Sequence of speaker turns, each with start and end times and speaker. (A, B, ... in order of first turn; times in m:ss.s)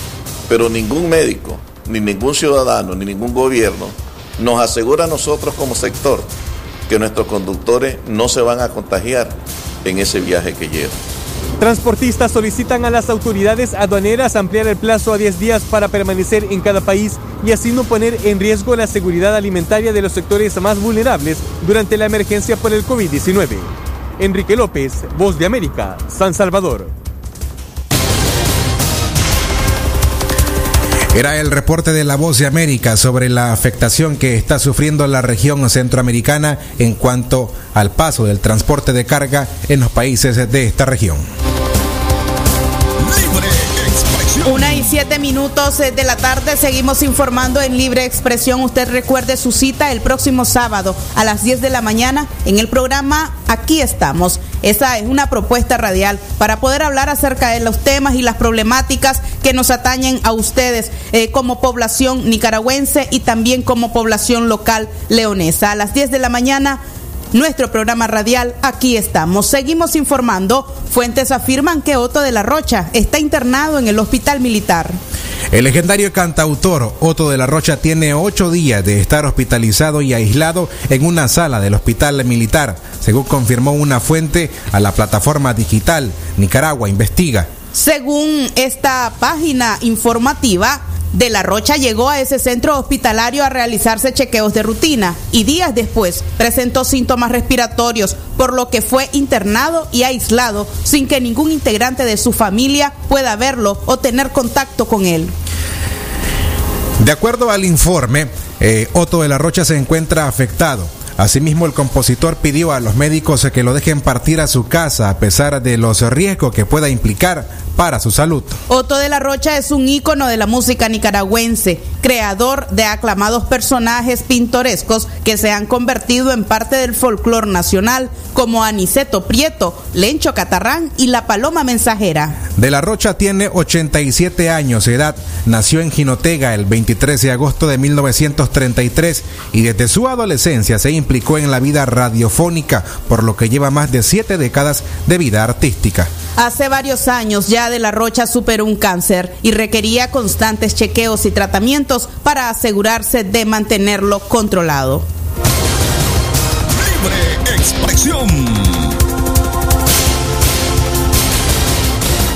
0:00.5-0:06.3 A
0:06.9-0:11.0 A
0:11.6-0:26.9 B
0:31.1-0:41.2 C
0:43.0-0:45.0 D
0:44.4-1:06.8 E
1:07.3-1:15.0 E
1:15.5-1:27.5 C
1:27.7-1:45.3 E
1:47.0-1:58.6 C
1:58.7-2:12.4 E
2:12.6-2:26.1 C
2:26.4-2:35.0 E
2:36.7-2:39.0 D